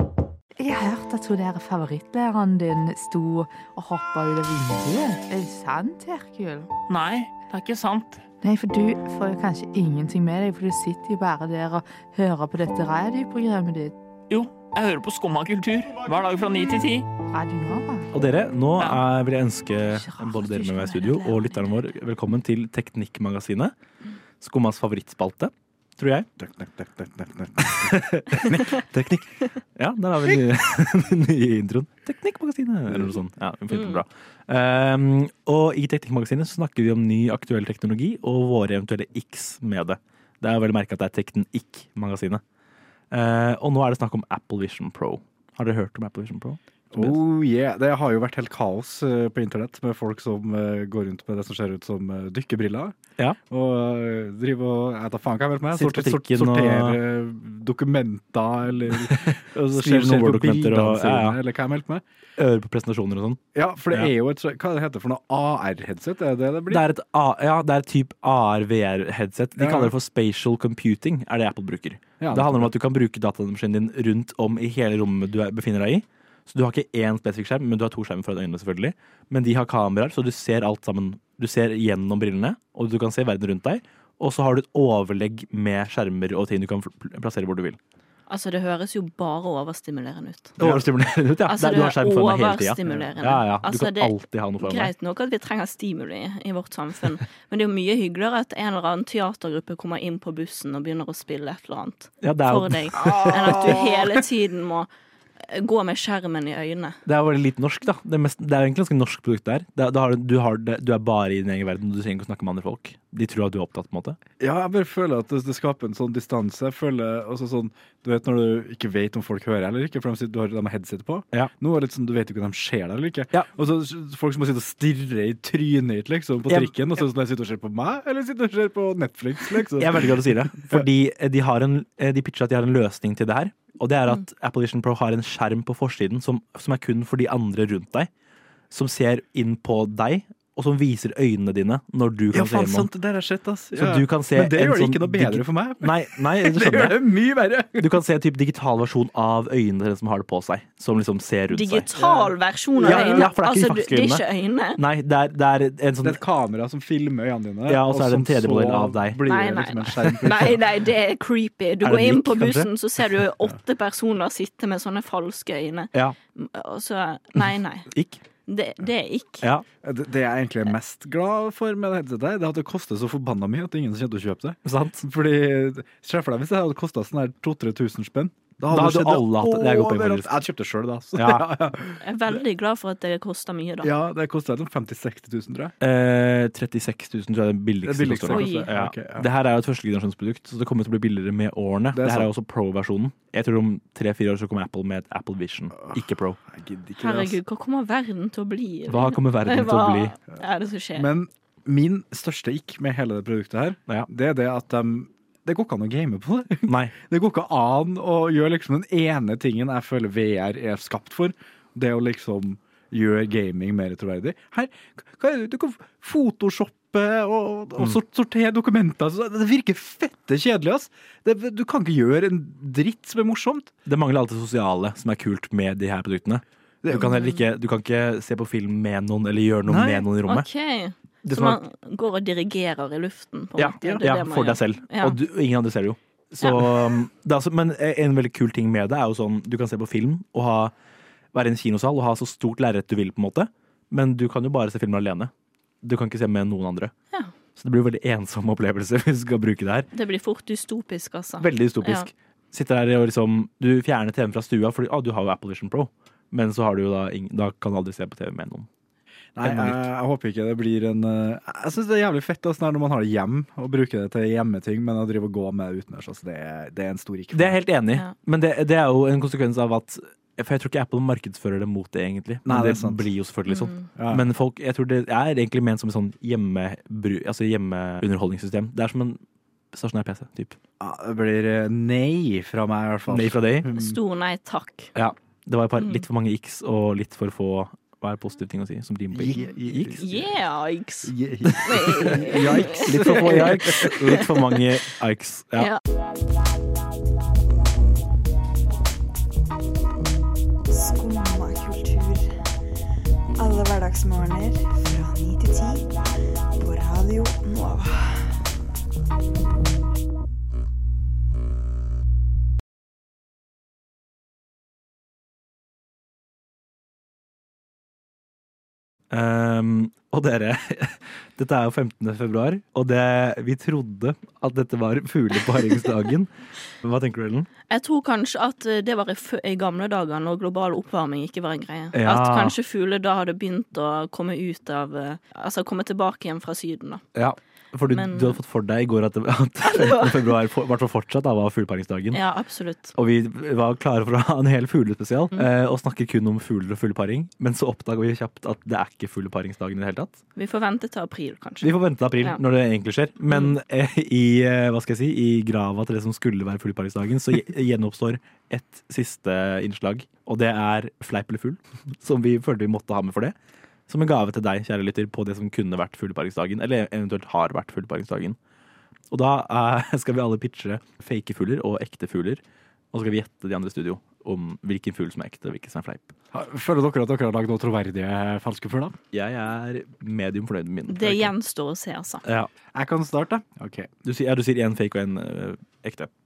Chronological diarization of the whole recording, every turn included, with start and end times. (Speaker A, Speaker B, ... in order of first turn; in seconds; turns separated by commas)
Speaker A: 0.6-6.7, Speaker B: 6.9-8.2, Speaker A: 8.4-13.9, Speaker B: 14.3-17.1, Speaker A: 17.3-18.1, Speaker C: 18.1-23.7, Speaker A: 19.9-21.7, Speaker C: 24.4-26.3, Speaker D: 26.4-28.7, Speaker C: 27.6-42.4, Speaker D: 32.9-33.2, Speaker E: 33.7-34.0, Speaker C: 43.1-47.2, Speaker D: 46.9-53.0, Speaker D: 53.5-62.0, Speaker C: 55.7-57.0, Speaker C: 59.1-61.4, Speaker C: 62.4-64.1, Speaker D: 63.5-66.8, Speaker C: 66.7-87.8, Speaker D: 69.6-69.9, Speaker D: 72.2-72.7, Speaker E: 88.3-90.6, Speaker C: 90.6-94.9, Speaker E: 91.5-104.9, Speaker C: 102.2-103.8, Speaker D: 103.0-104.0, Speaker E: 105.4-107.0, Speaker C: 107.1-114.2, Speaker D: 114.4-130.8, Speaker C: 126.5-126.7, Speaker C: 129.8-138.1, Speaker C: 138.7-142.9, Speaker D: 142.3-148.0, Speaker C: 143.8-147.1, Speaker C: 147.8-151.9, Speaker E: 151.5-154.8, Speaker D: 151.9-153.3, Speaker C: 152.8-154.2, Speaker C: 154.8-156.2, Speaker D: 156.0-160.6, Speaker C: 157.7-159.2, Speaker E: 159.3-167.9, Speaker C: 161.8-162.7, Speaker C: 167.9-168.2, Speaker E: 168.5-169.5, Speaker D: 169.8-182.0, Speaker C: 174.7-175.0, Speaker C: 178.7-180.3, Speaker C: 181.2-181.5, Speaker E: 182.0-183.9, Speaker D: 183.8-185.7, Speaker C: 185.8-196.4, Speaker D: 187.8-189.3, Speaker E: 188.3-188.7, Speaker D: 191.9-192.3, Speaker D: 195.8-197.4, Speaker E: 197.0-201.1, Speaker C: 198.9-200.1, Speaker D: 200.9-223.7, Speaker C: 206.7-206.9, Speaker C: 223.9-230.5, Speaker E: 227.0-227.4, Speaker D: 229.7-230.1, Speaker E: 230.3-235.2, Speaker C: 231.2-231.6, Speaker C: 233.6-240.7, Speaker E: 236.4-236.7, Speaker C: 241.3-245.3, Speaker C: 245.8-246.9, Speaker C: 247.6-249.9, Speaker E: 249.9-252.1, Speaker C: 251.4-258.7, Speaker D: 259.4-267.6, Speaker C: 259.4-259.8, Speaker C: 267.3-279.2, Speaker D: 272.4-273.1, Speaker E: 273.5-273.9, Speaker D: 274.0-274.3, Speaker C: 279.7-280.6, Speaker D: 280.8-284.0, Speaker C: 283.1-283.7, Speaker E: 283.7-284.9, Speaker C: 284.9-290.1, Speaker D: 289.1-290.1, Speaker E: 290.0-291.1, Speaker D: 291.1-294.2, Speaker C: 291.5-295.7, Speaker E: 291.6-294.2, Speaker F: 300.7-302.5, Speaker F: 303.4-306.0, Speaker F: 306.6-308.5, Speaker C: 319.1-326.3, Speaker C: 326.8-327.5, Speaker E: 327.7-337.0, Speaker C: 331.9-332.6, Speaker C: 337.1-342.2, Speaker E: 337.9-338.4, Speaker E: 339.6-340.2, Speaker E: 342.1-342.9, Speaker C: 342.9-350.2, Speaker E: 350.4-352.4, Speaker C: 351.6-363.4, Speaker C: 363.9-368.4, Speaker C: 369.1-372.4, Speaker C: 372.9-376.1, Speaker D: 376.3-379.0, Speaker C: 379.1-381.3, Speaker E: 380.9-382.2, Speaker C: 382.2-382.5, Speaker D: 382.7-383.9, Speaker C: 384.0-386.1